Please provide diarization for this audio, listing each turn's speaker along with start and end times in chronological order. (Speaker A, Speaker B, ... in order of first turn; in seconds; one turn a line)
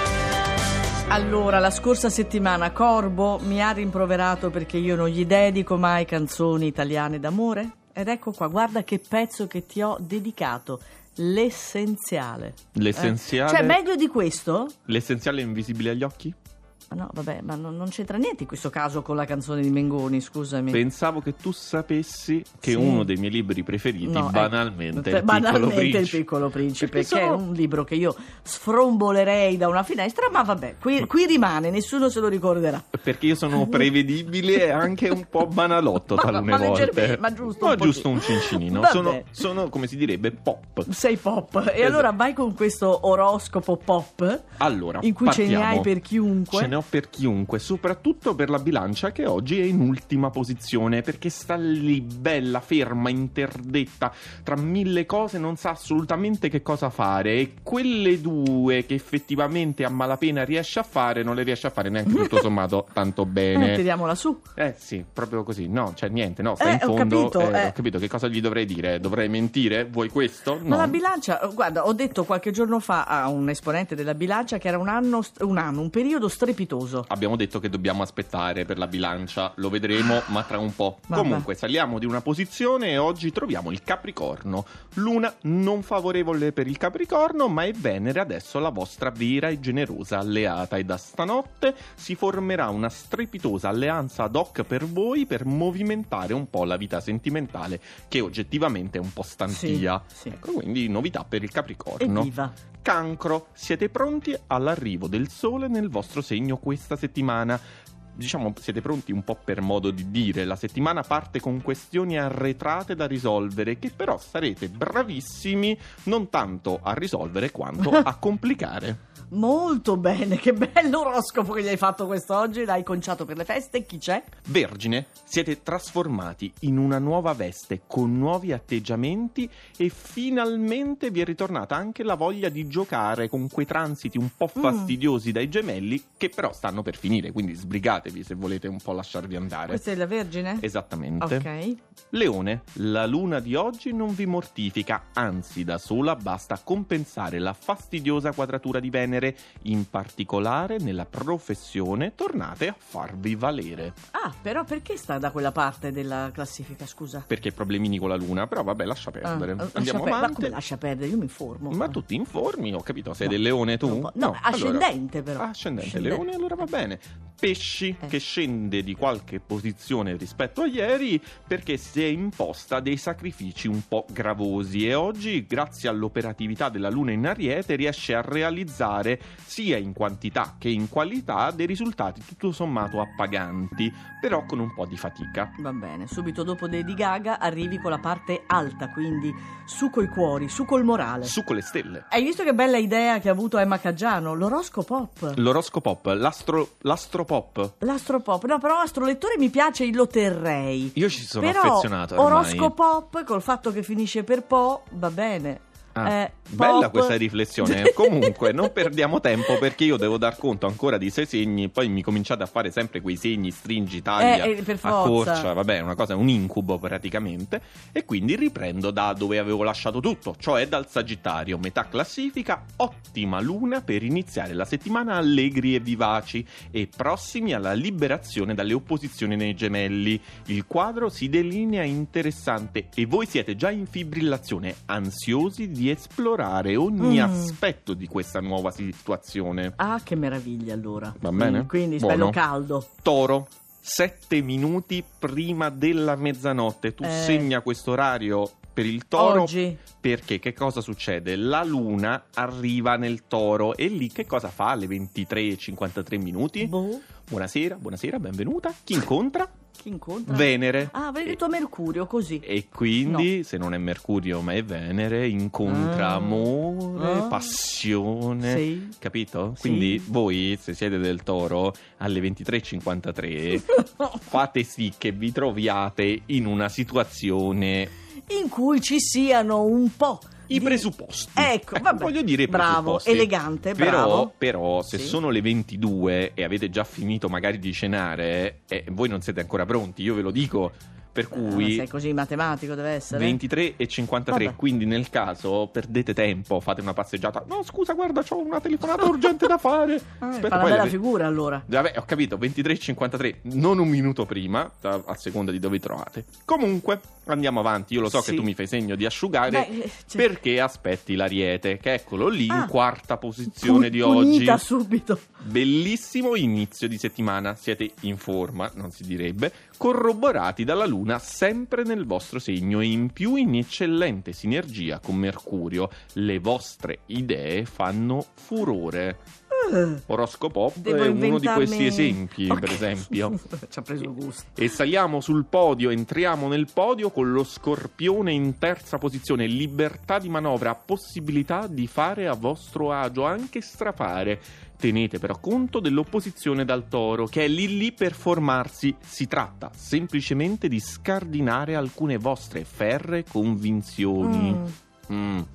Speaker A: 1.1-14.8
Speaker B: 12.8-13.8
Speaker B: 14.9-16.4
Speaker A: 16.9-20.8
Speaker B: 20.7-26.2
Speaker A: 22.6-23.1
Speaker A: 24.0-33.9
Speaker B: 26.8-27.4
Speaker B: 33.0-40.9
Speaker A: 36.1-39.4
Speaker A: 40.9-44.5
Speaker B: 41.8-42.1
Speaker B: 44.6-45.9
Speaker A: 45.0-46.7
Speaker B: 46.5-63.8
Speaker A: 62.1-62.5
Speaker A: 63.5-64.5
Speaker B: 64.6-71.0
Speaker A: 66.6-67.8
Speaker A: 70.7-77.1
Speaker B: 77.1-102.3
Speaker A: 81.1-81.5
Speaker A: 99.5-100.3
Speaker A: 102.0-102.5
Speaker B: 102.8-107.6
Speaker B: 108.2-119.0
Speaker A: 119.3-124.3
Speaker B: 124.5-139.8
Speaker A: 134.6-134.9
Speaker A: 139.7-140.7
Speaker B: 140.6-141.5
Speaker A: 141.2-141.8
Speaker B: 142.1-154.0
Speaker A: 154.1-157.3
Speaker B: 157.3-160.6
Speaker A: 159.2-162.0
Speaker B: 161.7-185.5
Speaker A: 163.2-166.2
Speaker A: 185.6-191.3
Speaker B: 191.2-192.1
Speaker A: 192.1-195.4
Speaker B: 195.3-197.7
Speaker A: 197.8-208.7
Speaker B: 201.0-202.7
Speaker B: 205.9-239.8
Speaker A: 214.2-215.5
Speaker A: 237.0-237.6
Speaker A: 239.8-242.9
Speaker B: 241.2-242.4
Speaker B: 243.0-256.7
Speaker A: 247.0-247.5
Speaker A: 249.2-249.8
Speaker A: 256.6-257.1
Speaker B: 257.3-259.5
Speaker A: 259.8-262.5
Speaker B: 260.3-261.4
Speaker B: 262.4-277.9
Speaker A: 265.6-267.4
Speaker A: 268.4-268.9
Speaker A: 269.6-270.1
Speaker A: 278.3-284.3
Speaker B: 280.5-291.9
Speaker A: 284.9-285.2
Speaker A: 291.3-293.4
Speaker B: 293.1-301.0
Speaker A: 294.3-294.6
Speaker A: 300.2-301.6
Speaker B: 301.7-314.6
Speaker A: 308.1-308.5
Speaker A: 309.5-310.3
Speaker A: 313.5-315.3
Speaker B: 315.4-329.2
Speaker A: 329.5-330.0
Speaker B: 330.1-333.4
Speaker A: 330.8-334.6
Speaker B: 334.6-355.5
Speaker A: 354.2-354.8